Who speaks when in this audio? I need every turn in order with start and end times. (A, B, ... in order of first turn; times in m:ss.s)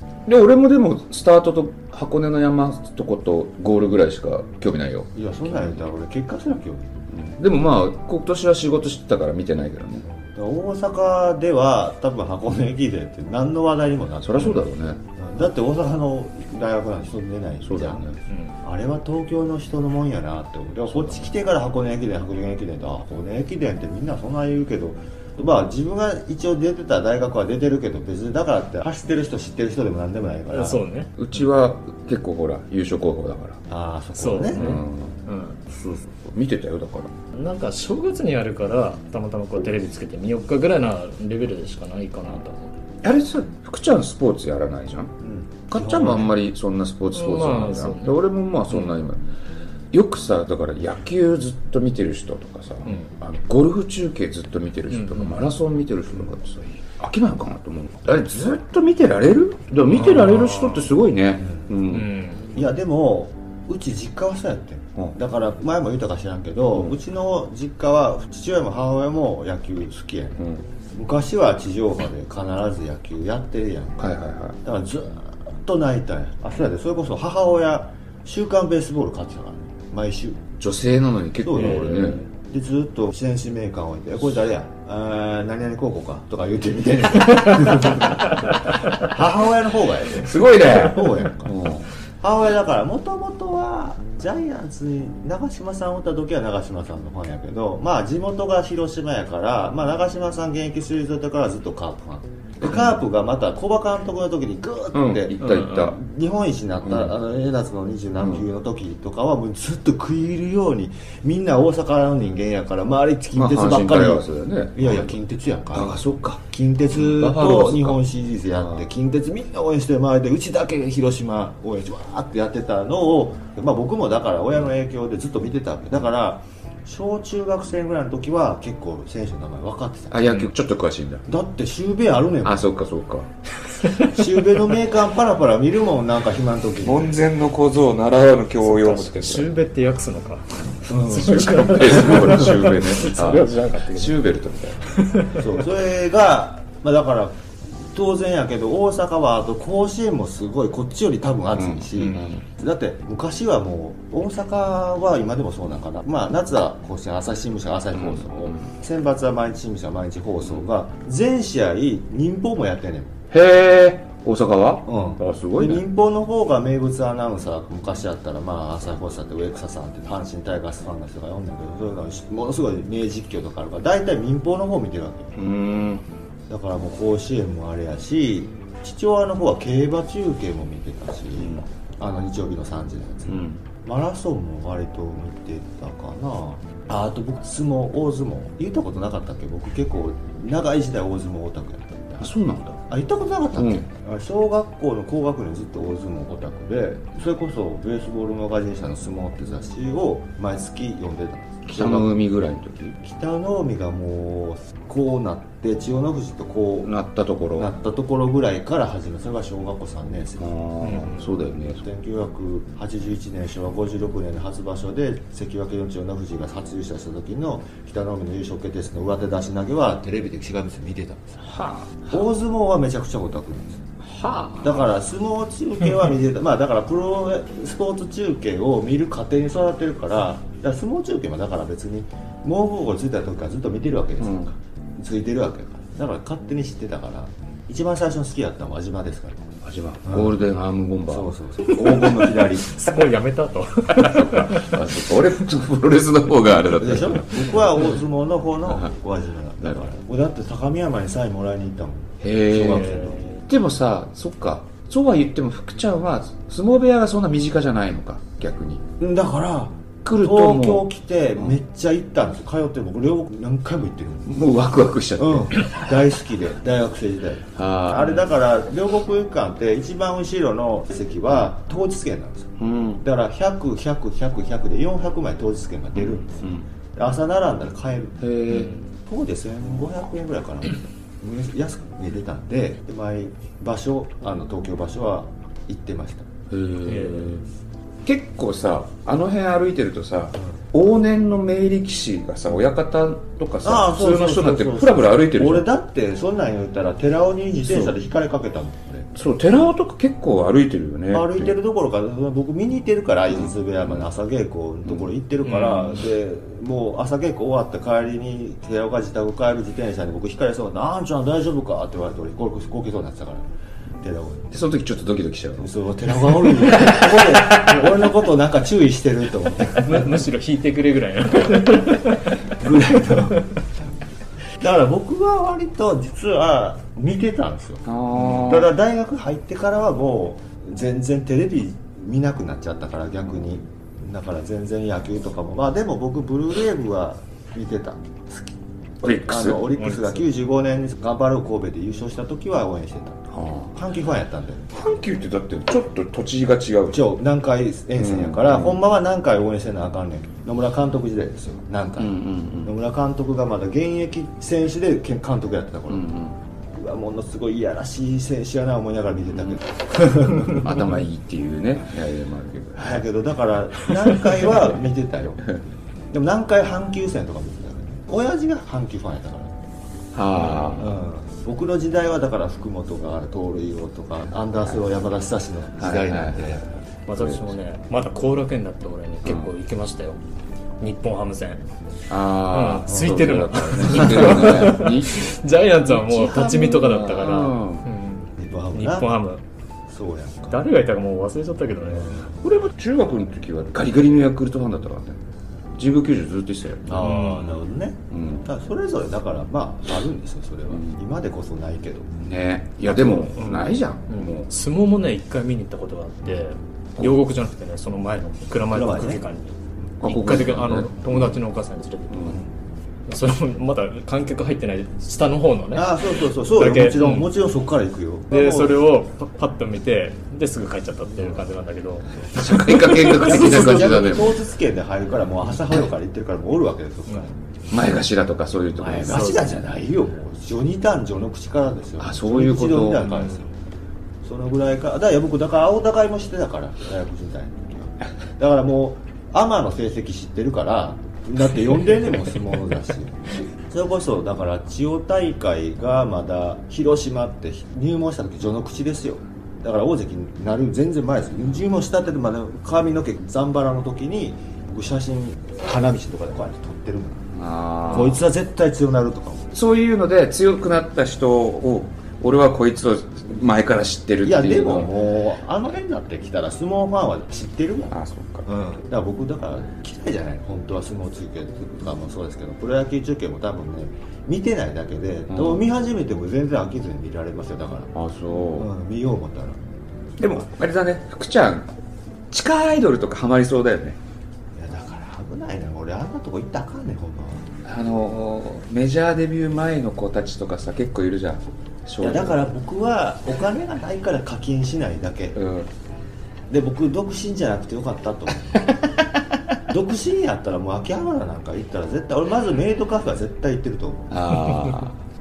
0:00.3-0:05.8 A
0:05.1-0:07.1 B
0:07.1-0:10.1 A
0:10.0-0:14.6 B
0:14.2-0:15.0 A
0:15.2-0:18.1 B
0:17.6-0:18.2 A
0:18.3-0:18.6 C
0:18.6-0:30.8 B
0:30.5-0:31.4 C
0:31.2-0:33.6 A
0:33.7-0:34.6 B
0:34.1-0:35.6 C
0:34.5-0:35.2 A
0:35.7-0:37.1 A
0:37.3-0:42.7 C
0:43.0-0:45.1 A
0:45.2-0:46.4 B
0:45.7-0:49.2 A
0:47.1-0:48.9 C
0:49.9-1:02.1 A
0:52.8-0:53.1 C
0:54.9-0:55.5 C
0:59.9-1:00.9 C
1:01.4-1:01.7 B
1:01.9-1:02.6 C
1:02.5-1:14.1 B
1:10.4-1:10.7 A
1:14.0-1:14.6 A
1:14.6-1:20.4 B
1:20.6-1:22.2 A
1:21.4-1:31.6 B
1:21.6-1:22.3 C
1:30.2-1:31.9 A
1:32.2-2:10.2 B
1:42.6-1:43.0 A
1:44.9-1:46.0 A
1:45.4-1:45.9 C
1:46.8-1:47.1 A
1:48.2-1:48.5 A
1:53.3-1:55.2 A
1:55.7-1:58.0 A
1:58.6-1:58.9 A
2:10.1-2:11.2 A
2:11.3-2:12.7 B
2:12.4-2:13.3 A
2:13.8-2:14.1 C
2:14.0-2:17.2 B
2:16.8-2:19.5 A
2:18.6-2:24.2 C
2:20.9-2:22.5 B
2:21.2-2:24.9 A
2:23.1-2:23.4 B
2:24.9-2:25.5 C
2:25.3-2:27.4 B
2:27.9-2:43.1 B
2:31.6-2:32.4 A
2:37.9-2:38.7 A
2:40.4-2:40.7 A
2:43.3-2:45.8 A
2:44.8-2:55.4 B
2:55.4-2:56.1 A
2:56.5-3:12.3 B
3:01.4-3:01.6 A
3:03.3-3:03.6 A
3:12.2-3:12.8 A
3:12.8-3:22.1 B
3:13.5-3:13.9 A
3:21.7-3:23.0 A
3:23.0-3:26.9 B
3:26.8-3:27.7 A
3:27.6-3:30.5 B
3:30.4-3:31.8 A
3:30.8-3:31.3 C
3:31.6-3:41.4 B
3:41.4-3:42.3 A
3:42.1-3:43.8 B
3:44.0-3:44.9 A
3:44.6-3:59.4 B
3:54.2-3:54.5 A
3:59.6-4:02.1 A
4:00.0-4:00.4 B
4:01.1-4:02.7 B
4:02.0-4:05.2 C
4:04.0-4:08.0 A
4:06.8-4:13.3 B
4:12.2-4:18.8 A
4:12.6-4:13.4 C
4:19.0-4:24.3 B
4:20.0-4:21.6 A
4:24.3-4:25.9 A
4:25.2-4:32.5 B
4:27.6-4:28.3 A
4:32.6-4:33.0 A
4:33.0-4:38.2 B
4:35.9-4:36.7 A
4:38.2-4:38.7 A
4:38.5-4:38.9 C
4:39.1-4:46.3 B
4:46.5-4:47.5 A
4:46.8-4:47.4 C
4:48.0-4:55.7 A
4:50.4-4:50.6 B
4:53.6-4:59.1 B
4:57.6-4:58.0 A
4:59.2-5:01.6 A
5:01.1-5:13.5 B
5:03.3-5:04.0 A
5:04.8-5:05.1 A
5:05.4-5:06.0 C
5:14.0-5:14.5 B
5:14.5-5:15.6 A
5:15.6-5:20.1 B
5:16.6-5:18.0 A
5:19.8-5:22.4 C
5:22.5-5:23.7 B
5:24.6-5:43.2 B
5:27.8-5:28.7 A
5:39.0-5:39.7 A
5:39.8-5:40.3 C
5:43.3-5:43.8 A
5:43.7-5:44.8 B
5:44.7-5:47.1 A
5:46.9-5:56.1 B
5:48.0-5:48.8 A
5:52.0-5:52.8 A
5:55.9-5:56.4 A
5:56.8-6:00.8 B
5:59.3-5:59.6 A
6:00.5-6:03.1 A
6:02.8-6:05.5 B
6:06.1-6:09.5 B
6:10.1-6:11.0 A
6:10.4-6:10.8 C
6:10.8-6:16.7 B
6:15.8-6:17.6 A
6:17.1-6:20.2 C
6:19.2-6:19.5 A
6:20.8-6:21.7 C
6:22.1-6:25.3 A
6:22.4-6:29.4 C
6:22.9-6:23.2 B
6:26.2-6:27.9 A
6:26.2-6:26.6 B
6:28.4-6:29.1 B
6:29.9-6:30.6 B
6:30.5-6:32.2 C
6:31.8-6:32.4 B
6:32.4-6:35.2 A
6:35.8-6:37.0 A
6:36.8-6:42.1 B
6:37.0-6:37.7 C
6:38.1-6:38.5 A
6:40.7-6:41.0 A
6:42.2-6:44.5 A
6:42.9-6:52.5 C
6:42.9-6:43.2 B
6:48.7-6:49.2 B
6:50.0-6:51.4 A
6:52.1-6:52.4 A
6:53.1-6:57.3 C
6:55.7-6:58.8 B
6:58.3-7:04.0 C
7:02.3-7:04.4 A
7:03.1-7:07.4 B
7:07.7-7:09.3 A
7:08.8-7:13.5 B
7:09.0-7:09.7 C
7:12.0-7:13.2 A
7:12.9-7:13.5 C
7:14.2-7:37.2 B
7:37.3-7:38.2 A
7:37.9-7:39.5 B
7:37.9-7:38.2 C
7:39.5-7:44.9 A
7:44.2-7:57.9 B
7:47.9-7:48.5 A
7:55.3-7:55.7 A
7:57.9-7:58.7 A
7:58.6-7:59.6 B
8:00.2-8:01.7 A
8:02.3-8:04.0 A
8:04.6-8:07.4 B
8:07.6-8:12.5 A
8:12.0-8:15.4 B
8:15.4-8:15.7 A
8:16.5-8:18.7 B
8:19.7-8:24.3 B
8:24.1-8:25.0 A